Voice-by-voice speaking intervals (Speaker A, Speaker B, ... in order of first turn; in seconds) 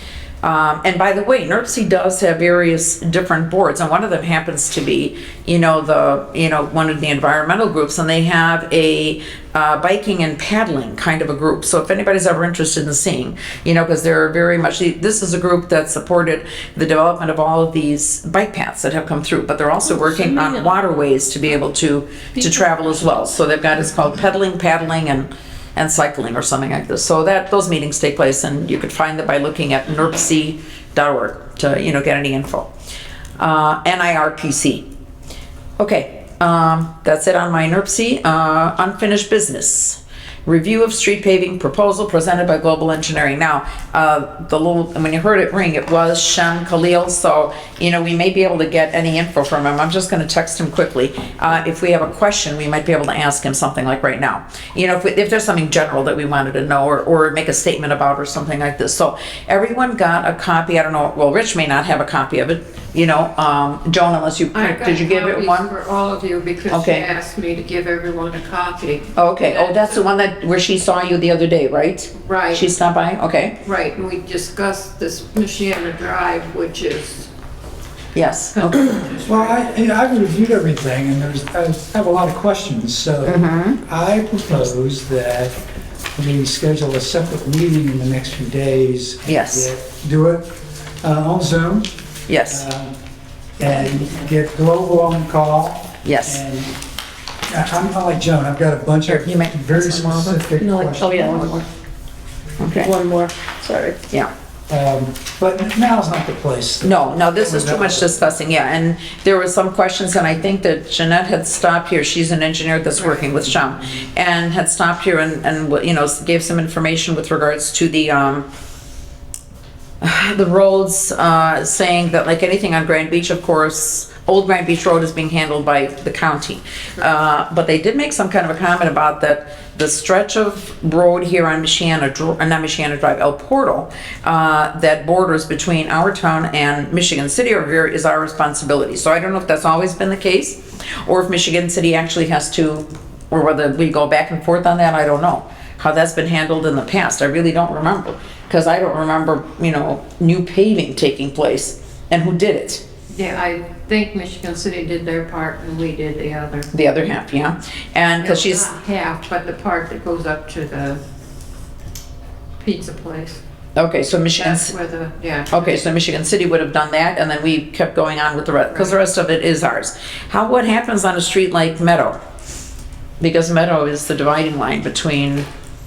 Speaker A: 0.4-32.7, 33.4-34.9, 35.8-65.7, 66.7-67.1, 69.2-73.6, 78.2-78.9, 83.3-83.8, 89.3-89.7, 92.3-92.7, 96.0-96.4, 99.1-100.4, 102.6-102.9, 106.8-118.5, 120.0-152.8, 156.7-158.7, 163.8-164.7, 165.5-172.2, 173.2-175.5
Speaker B: 19.9-20.7, 22.4-22.9, 100.6-101.7, 102.7-104.0
Speaker C: 64.5-70.0, 72.1-72.7, 73.6-77.3, 78.5-79.7, 153.1-156.7, 158.2-161.0, 162.6-163.4, 164.4-165.8, 168.7-169.0
Speaker D: 79.3-85.5, 86.2-91.9, 92.5-93.0, 93.6-96.8, 97.5-101.6, 104.7-108.1